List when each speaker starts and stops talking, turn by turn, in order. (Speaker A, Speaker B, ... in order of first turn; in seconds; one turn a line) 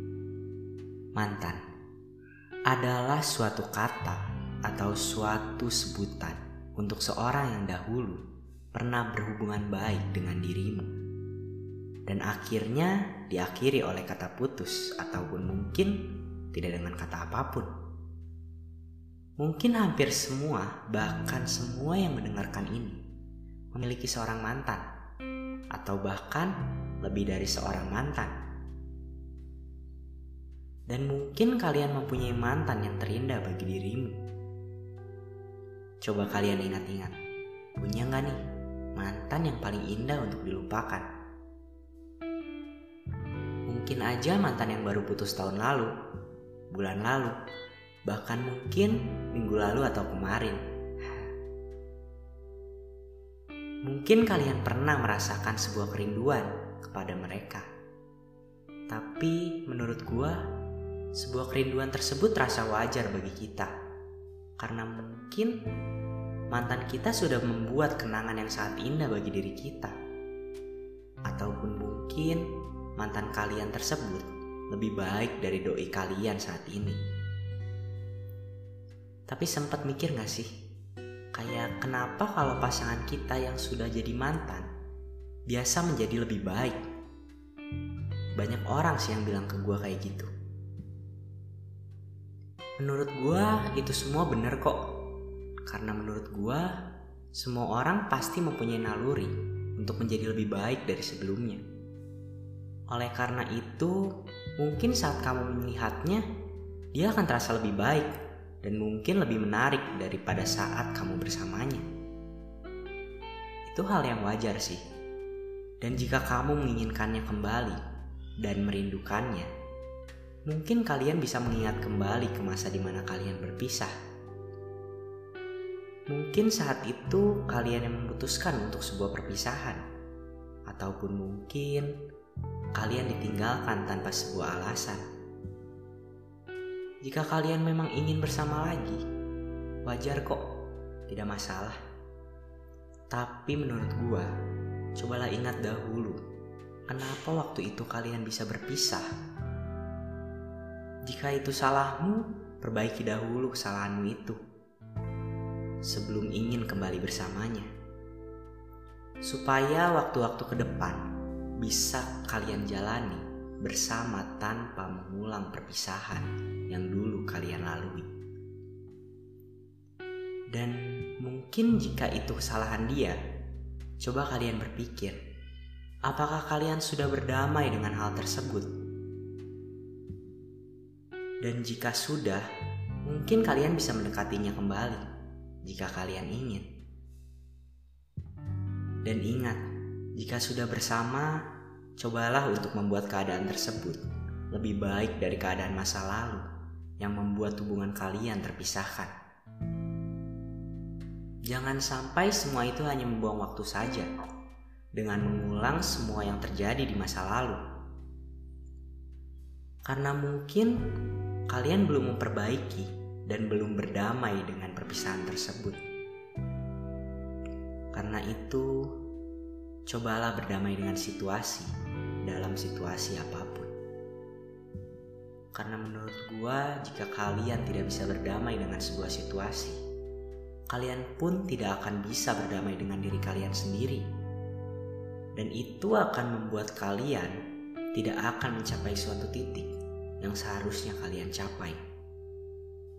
Speaker A: 1.1-1.6
Speaker A: 2.7-8.2
Speaker A: 8.7-10.9
Speaker A: 12.1-16.0
Speaker A: 16.5-17.7
Speaker A: 19.4-23.0
Speaker A: 23.7-24.8
Speaker A: 25.7-28.3
Speaker A: 30.9-34.2
Speaker A: 36.0-37.2
Speaker A: 37.8-38.4
Speaker A: 39.0-41.1
Speaker A: 43.7-45.9
Speaker A: 46.7-47.4
Speaker A: 48.1-51.3
Speaker A: 53.9-57.7
Speaker A: 58.9-60.4
Speaker A: 61.1-63.7
Speaker A: 64.6-65.5
Speaker A: 66.5-70.0
Speaker A: 71.3-72.5
Speaker A: 73.0-77.0
Speaker A: 79.3-80.5
Speaker A: 81.3-84.7
Speaker A: 85.5-86.8
Speaker A: 88.4-90.3
Speaker A: 92.8-94.8
Speaker A: 95.7-96.7
Speaker A: 97.3-101.6
Speaker A: 102.9-104.0
Speaker A: 104.6-106.2
Speaker A: 106.9-108.1
Speaker A: 108.6-111.9
Speaker A: 113.7-114.8
Speaker A: 115.8-117.8
Speaker A: 118.4-119.5
Speaker A: 120.5-123.9
Speaker A: 126.1-129.8
Speaker A: 130.7-131.9
Speaker A: 132.8-135.0
Speaker A: 137.0-139.0
Speaker A: 139.8-140.4
Speaker A: 141.1-141.8
Speaker A: 143.1-144.3
Speaker A: 145.0-146.2
Speaker A: 146.9-149.1
Speaker A: 151.1-154.4
Speaker A: 155.9-157.7
Speaker A: 159.2-161.0
Speaker A: 161.6-168.1
Speaker A: 170.5-173.2
Speaker A: 174.0-175.2
Speaker A: 176.1-178.7
Speaker A: 181.4-182.4
Speaker A: 183.1-185.0
Speaker A: 185.6-186.7
Speaker A: 189.0-189.6
Speaker A: 190.2-191.4
Speaker A: 192.0-196.4
Speaker A: 197.0-199.1
Speaker A: 201.5-204.1
Speaker A: 205.0-207.6
Speaker A: 209.9-210.8
Speaker A: 211.5-215.8
Speaker A: 217.9-218.9
Speaker A: 219.9-221.7
Speaker A: 222.2-223.7
Speaker A: 225.5-229.8
Speaker A: 230.7-234.1
Speaker A: 235.4-237.4
Speaker A: 237.9-241.8